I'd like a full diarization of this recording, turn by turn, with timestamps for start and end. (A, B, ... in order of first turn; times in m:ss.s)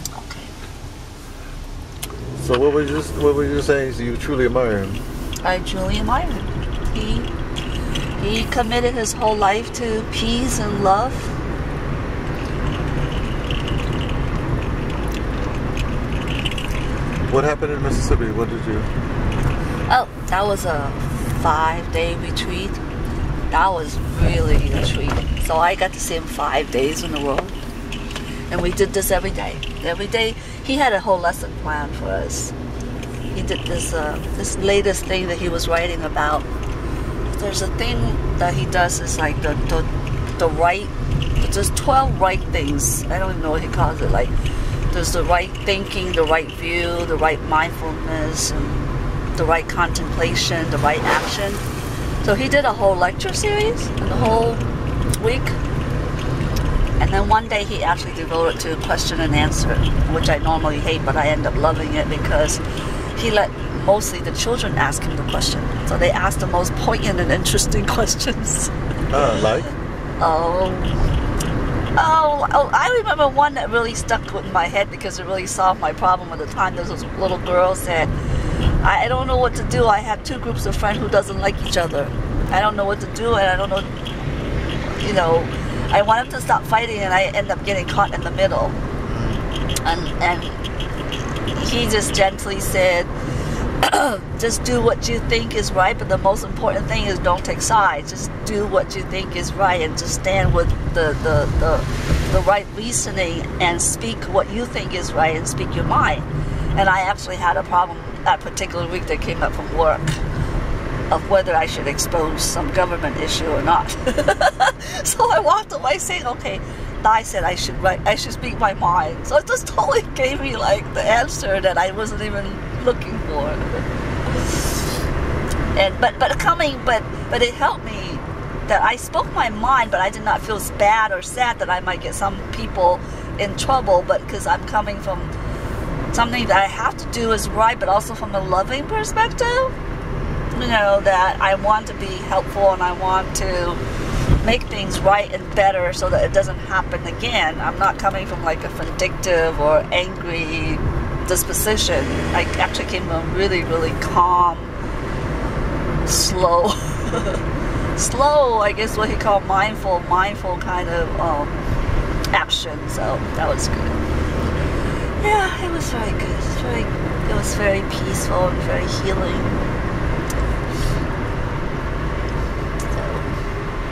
0:00.2-0:00.5 A
0:02.4-0:05.0 B
0:05.4-0:07.3 A
0:08.2-0:11.3 A
0:17.3-0:18.9 B
0:19.9-0:22.8 A
0:23.5-0:27.6 A
0:28.5-0:32.6 A
0:33.3-0:36.5 A
0:37.3-0:44.3 A
0:44.9-0:48.8 A
0:49.4-0:51.6 A
0:52.2-0:54.6 A
0:55.2-0:55.6 A
0:57.0-1:02.6 A
1:03.2-1:09.3 A
1:09.1-1:09.7 B
1:10.2-1:11.0 A
1:12.0-1:18.1 A
1:18.8-1:23.9 A
1:24.9-1:28.8 A
1:29.1-1:29.5 B
1:29.8-1:30.6 A
1:31.6-1:33.1 A
1:33.8-1:50.2 A
1:51.1-2:04.8 A
2:05.8-2:15.3 A
2:16.1-2:19.7 A
2:20.5-2:23.8 A
2:24.4-2:34.7 A
2:36.1-2:37.4 A
2:38.0-2:41.6 A
2:42.3-2:44.0 A
2:45.2-2:49.5 A
2:52.9-2:53.3 A